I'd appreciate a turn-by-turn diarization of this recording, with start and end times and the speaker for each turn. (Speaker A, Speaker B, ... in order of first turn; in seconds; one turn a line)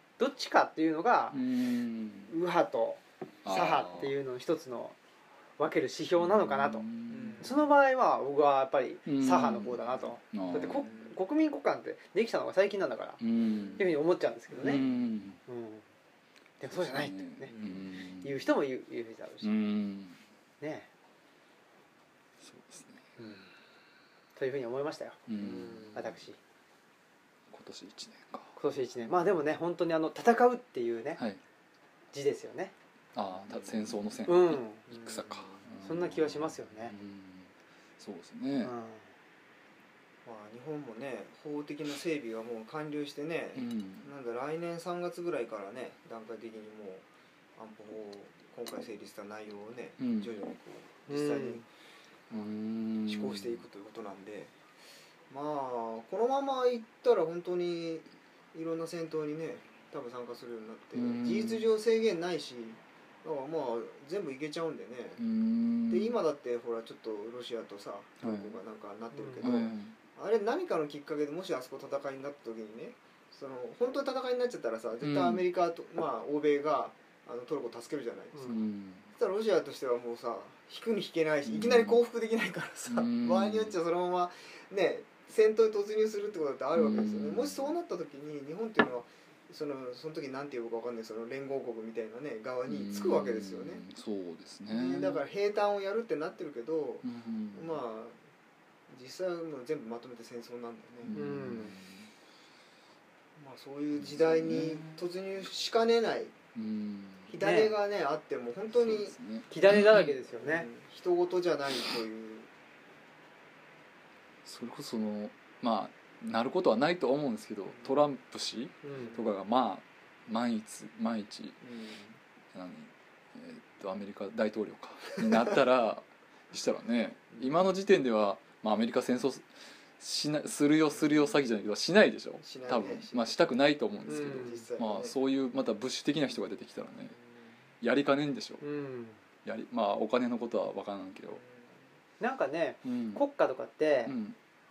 Speaker A: 0.2-1.4
Speaker B: 1.3-2.3
Speaker A: 2.3-5.0
Speaker B: 3.4-4.1
Speaker A: 5.6-6.8
Speaker B: 6.2-7.5
Speaker C: 7.1-7.6
Speaker A: 7.4-13.2
Speaker B: 9.1-10.9
Speaker C: 10.5-11.1
Speaker B: 13.2-13.8
Speaker C: 13.4-13.8
Speaker A: 13.8-14.8
Speaker C: 14.5-15.0
Speaker B: 14.6-15.4
Speaker A: 15.5-15.8
Speaker A: 16.6-17.5
Speaker B: 16.7-18.5
Speaker C: 17.5-17.8
Speaker A: 18.2-19.5
Speaker B: 19.4-20.2
Speaker A: 20.6-20.9
Speaker B: 22.4-23.0
Speaker A: 23.2-23.4
Speaker A: 24.4-25.2
Speaker B: 25.3-25.9
Speaker C: 25.4-26.1
Speaker A: 25.9-26.4
Speaker B: 27.5-28.5
Speaker A: 28.6-31.2
Speaker A: 32.1-32.7
Speaker B: 33.1-38.7
Speaker A: 34.2-34.8
Speaker C: 34.9-35.6
Speaker A: 35.8-36.9
Speaker A: 38.6-39.0
Speaker C: 40.2-51.6
Speaker B: 43.5-44.1
Speaker B: 50.0-50.3
Speaker A: 51.1-51.6
Speaker B: 52.3-53.6
Speaker C: 53.0-54.5
Speaker C: 55.3-65.2
Speaker B: 60.9-61.6
Speaker B: 65.2-66.2
Speaker C: 65.9-78.5
Speaker B: 68.2-68.6
Speaker A: 69.1-69.5
Speaker B: 69.4-69.9
Speaker B: 75.0-75.4
Speaker A: 78.3-78.6
Speaker B: 78.4-79.1
Speaker C: 79.1-93.8
Speaker B: 81.5-82.0
Speaker B: 82.8-83.8
Speaker B: 86.7-87.7
Speaker B: 92.7-95.2
Speaker C: 94.7-98.2
Speaker B: 97.0-97.8
Speaker C: 98.9-101.2
Speaker B: 101.0-102.1
Speaker A: 101.1-101.7
Speaker C: 103.3-106.3
Speaker B: 104.0-105.0
Speaker B: 106.5-107.3
Speaker C: 107.3-109.1
Speaker A: 107.4-107.8
Speaker B: 108.7-110.1
Speaker A: 109.5-110.7
Speaker C: 110.3-112.5
Speaker B: 114.4-121.6
Speaker A: 118.8-119.2
Speaker C: 121.6-122.2
Speaker B: 122.5-129.4
Speaker B: 130.0-137.2
Speaker C: 132.4-133.3
Speaker C: 134.0-135.1
Speaker A: 134.1-134.6
Speaker B: 137.8-138.6
Speaker A: 138.6-139.2
Speaker B: 139.4-141.4
Speaker C: 141.4-141.7
Speaker A: 142.2-144.1
Speaker B: 142.8-143.2
Speaker B: 144.1-144.3